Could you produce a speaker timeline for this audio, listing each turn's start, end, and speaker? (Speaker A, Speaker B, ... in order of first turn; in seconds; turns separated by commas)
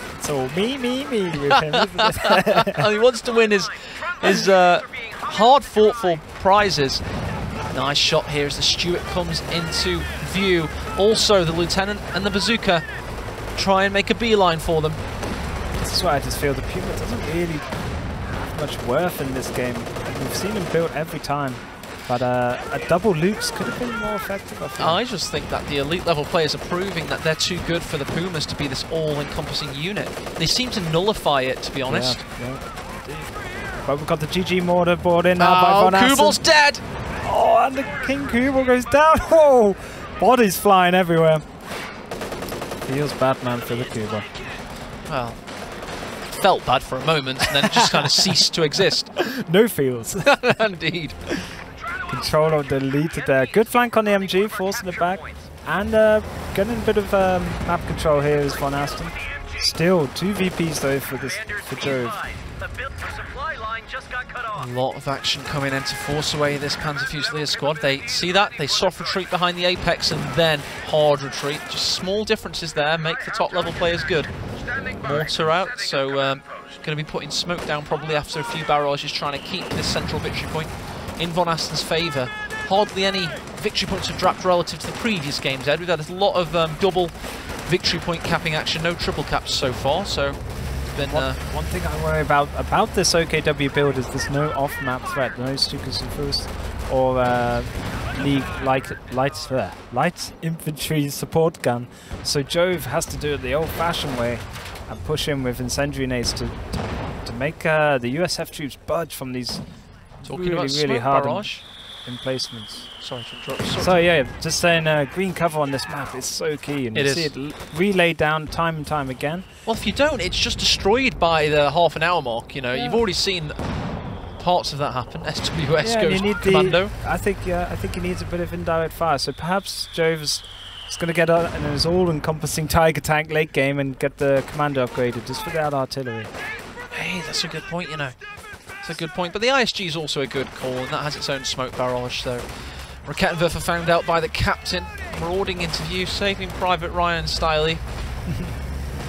Speaker A: 0.2-2.9, Speaker B: 1.5-7.0, Speaker B: 7.7-12.8, Speaker B: 13.5-15.0, Speaker A: 15.8-17.8, Speaker A: 18.3-25.0, Speaker B: 24.8-32.2, Speaker A: 31.9-36.4, Speaker B: 35.4-36.8, Speaker A: 37.2-41.4, Speaker A: 42.9-44.3, Speaker B: 45.0-45.4, Speaker B: 46.3-49.1, Speaker A: 47.6-48.4, Speaker A: 49.1-50.4, Speaker B: 50.2-51.2, Speaker A: 52.1-62.2, Speaker C: 61.5-64.5, Speaker B: 64.5-74.3, Speaker A: 74.7-75.5, Speaker B: 75.0-90.4, Speaker B: 90.9-91.4, Speaker A: 91.0-109.6, Speaker A: 110.2-112.9, Speaker B: 110.2-111.6, Speaker B: 113.0-114.0, Speaker A: 113.8-119.5, Speaker B: 116.9-117.3, Speaker B: 119.7-123.6, Speaker A: 122.7-123.0, Speaker B: 124.4-126.9, Speaker A: 125.8-136.3, Speaker B: 136.9-138.1, Speaker B: 138.8-147.8, Speaker A: 148.3-148.5